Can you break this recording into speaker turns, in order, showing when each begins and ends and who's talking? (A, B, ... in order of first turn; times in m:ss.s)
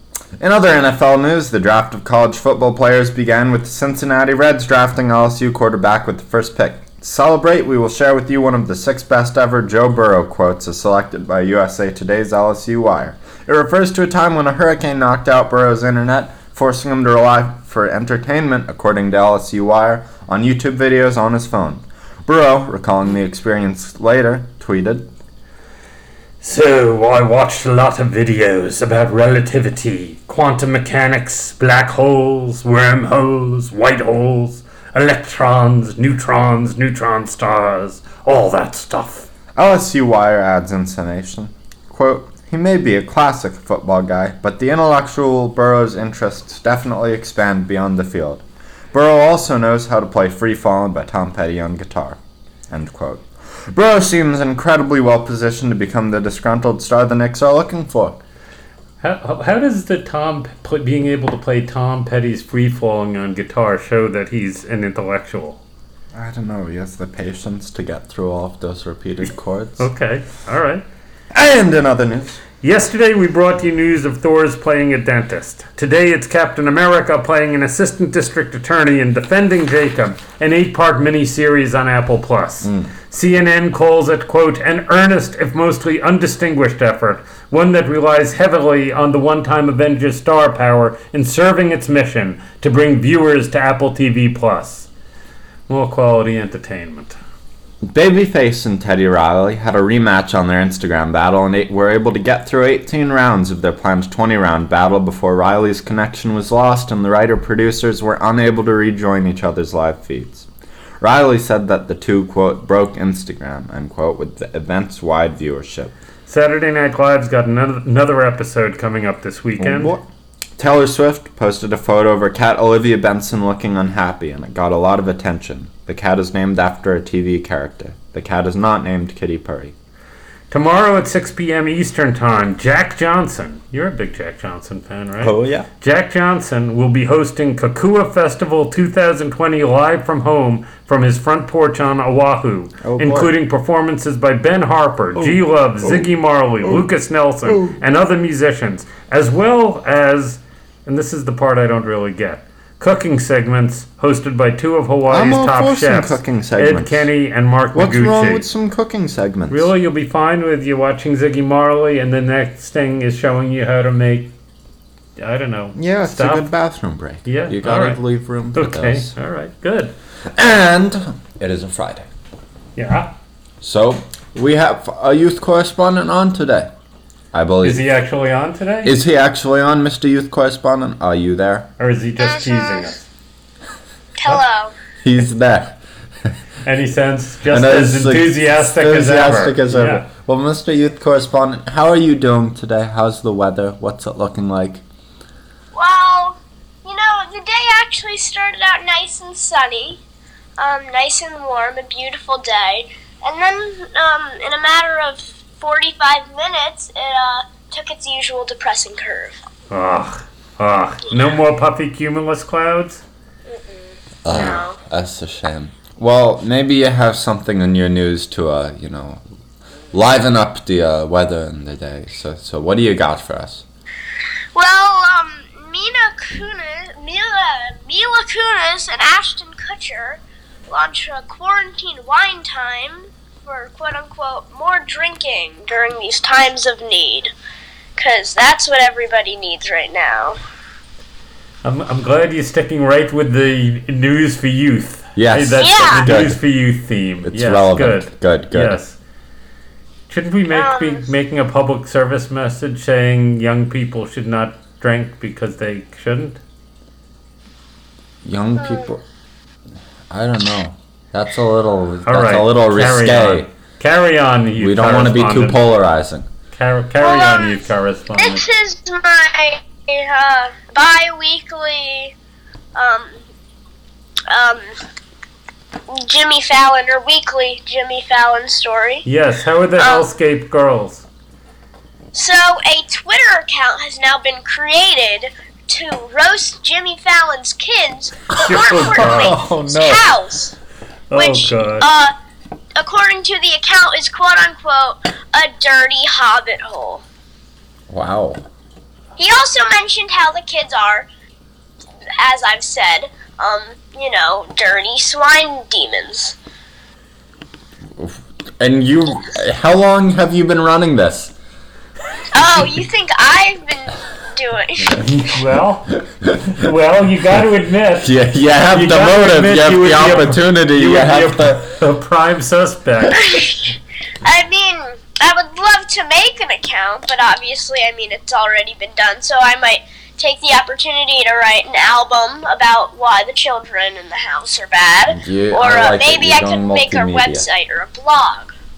0:00.4-0:25.1 A
0:26.4-0:39.2 B
0:39.5-0:52.2 A
0:52.7-0:58.2 A
0:59.0-1:05.6 B
1:06.1-1:09.9 A
1:09.3-1:10.8 B
1:11.3-1:12.4 A
1:12.6-1:34.9 B
1:22.6-1:22.9 A
1:35.7-1:37.2 B
1:37.8-1:50.5 A
1:51.0-1:55.9 A
1:56.3-1:59.9 B
1:59.6-2:00.0 A
2:00.6-2:09.7 A
2:10.5-2:38.4 B
2:15.2-2:15.7 A
2:22.8-2:23.3 A
2:25.1-2:26.1 A
2:27.4-2:27.8 A
2:35.1-2:37.1 A
2:37.7-2:39.7 A
2:39.5-2:44.3 B
2:45.2-2:46.5 B
2:45.7-2:49.1 A
2:47.2-2:49.9 B
2:50.3-2:52.1 A
2:52.8-2:53.1 B
2:53.6-2:56.7 A
2:57.3-2:57.8 A
2:57.6-2:58.9 B
2:58.8-3:01.7 A
3:01.8-3:03.1 B
3:02.2-3:02.9 C
3:04.2-3:04.7 C
3:05.0-3:05.8 A
3:06.6-3:10.0 B
3:07.5-3:14.8 A
3:15.7-3:20.0 C
3:20.6-3:29.4 C
3:29.7-3:33.0 B
3:33.5-3:34.8 C
3:34.2-3:39.2 A
3:34.3-3:34.5 B
3:39.9-3:43.6 A
3:44.5-3:57.3 C
3:58.0-4:00.4 C
4:01.6-4:09.0 B
4:05.2-4:06.4 A
4:05.6-4:06.1 C
4:07.2-4:08.8 A
4:10.1-4:16.4 B
4:10.5-4:11.1 C
4:18.2-4:19.0 A
4:18.6-4:18.9 C
4:20.1-4:23.5 A
4:22.0-4:25.6 B
4:24.6-4:26.3 A
4:26.5-4:28.4 B
4:27.0-4:32.1 C
4:32.7-4:33.3 C
4:34.3-4:34.8 C
4:35.9-4:39.0 C
4:39.0-4:41.0 B
4:39.8-4:40.1 C
4:42.1-4:50.5 C
4:48.4-4:49.4 B
4:48.9-4:50.1 A
4:51.1-4:51.9 B
4:51.1-4:52.1 C
4:52.8-4:57.0 C
4:57.9-4:58.4 A
4:59.2-5:01.1 C
5:02.2-5:06.4 C
5:08.0-5:11.3 A
5:12.3-5:15.0 C
5:14.8-5:16.0 B
5:16.5-5:18.1 B
5:18.0-5:21.6 A
5:18.7-5:23.6 B
5:23.1-5:38.5 C
5:35.1-5:37.4 A